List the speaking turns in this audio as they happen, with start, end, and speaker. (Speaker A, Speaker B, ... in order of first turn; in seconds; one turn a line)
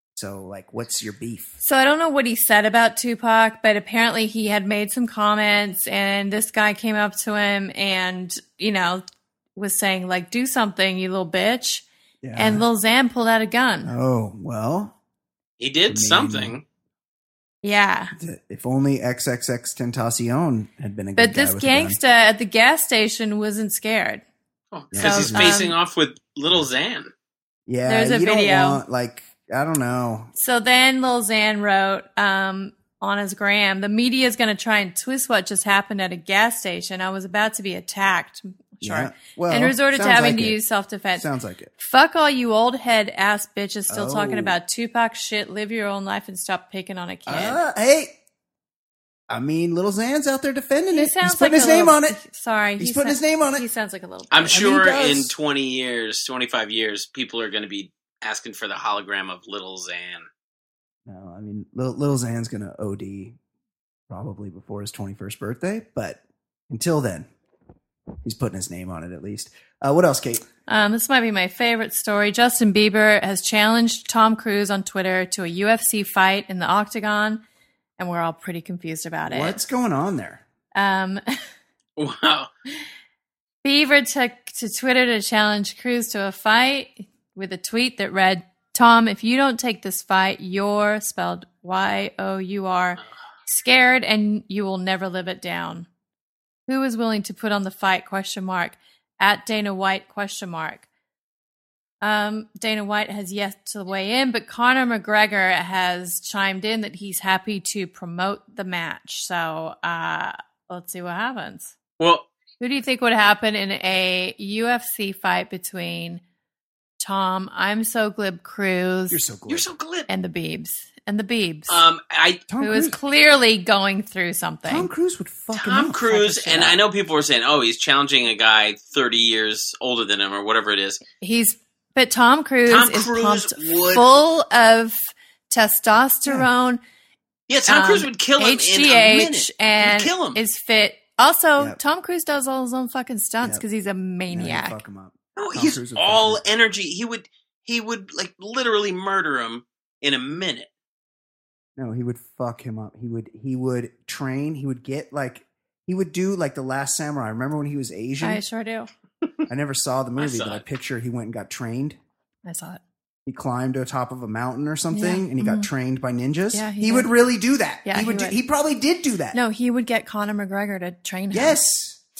Speaker A: 0.1-1.6
Speaker B: 1.6-9.0
Speaker B: 9.6-13.9
Speaker A: 12.2-12.7
Speaker A: 13.8-14.9
Speaker C: 15.6-16.6
Speaker A: 15.9-16.6
Speaker B: 17.6-18.1
Speaker A: 18.1-22.0
Speaker B: 21.2-24.2
Speaker C: 24.7-27.1
Speaker A: 24.9-25.6
Speaker B: 25.0-25.8
Speaker A: 27.7-30.3
Speaker B: 27.9-28.8
Speaker B: 30.4-47.6
Speaker A: 38.8-40.6
Speaker A: 41.1-41.7
Speaker A: 43.9-44.6
Speaker A: 47.3-48.1
Speaker A: 49.3-52.2
Speaker B: 50.9-54.6
Speaker A: 52.8-53.6
Speaker C: 54.3-60.3
Speaker A: 54.5-55.3
Speaker A: 61.0-63.4
Speaker A: 64.1-67.3
Speaker A: 68.2-70.5
Speaker B: 70.7-77.4
Speaker B: 78.0-79.6
Speaker A: 79.3-80.4
Speaker B: 80.7-81.2
Speaker C: 82.0-82.5
Speaker B: 83.6-95.9
Speaker B: 96.7-100.8
Speaker B: 102.0-111.7
Speaker C: 112.0-112.3
Speaker B: 112.6-116.2
Speaker B: 117.0-119.2
Speaker A: 119.1-119.7
Speaker C: 119.5-120.1
Speaker B: 120.1-121.8
Speaker C: 121.7-122.4
Speaker A: 122.5-123.0
Speaker B: 122.6-124.9
Speaker A: 124.7-126.6
Speaker C: 125.5-131.0
Speaker B: 126.3-126.7
Speaker B: 131.2-136.8
Speaker C: 132.7-134.1
Speaker C: 137.5-140.4
Speaker B: 137.7-144.8
Speaker A: 144.3-146.4
Speaker C: 145.3-150.7
Speaker A: 151.8-158.4
Speaker B: 158.2-158.9
Speaker A: 159.5-162.0
Speaker C: 160.2-160.6
Speaker B: 162.4-162.8
Speaker A: 163.2-169.4
Speaker B: 164.9-165.7
Speaker B: 166.5-167.1
Speaker B: 167.8-168.3
Speaker B: 169.3-171.6
Speaker A: 171.3-172.0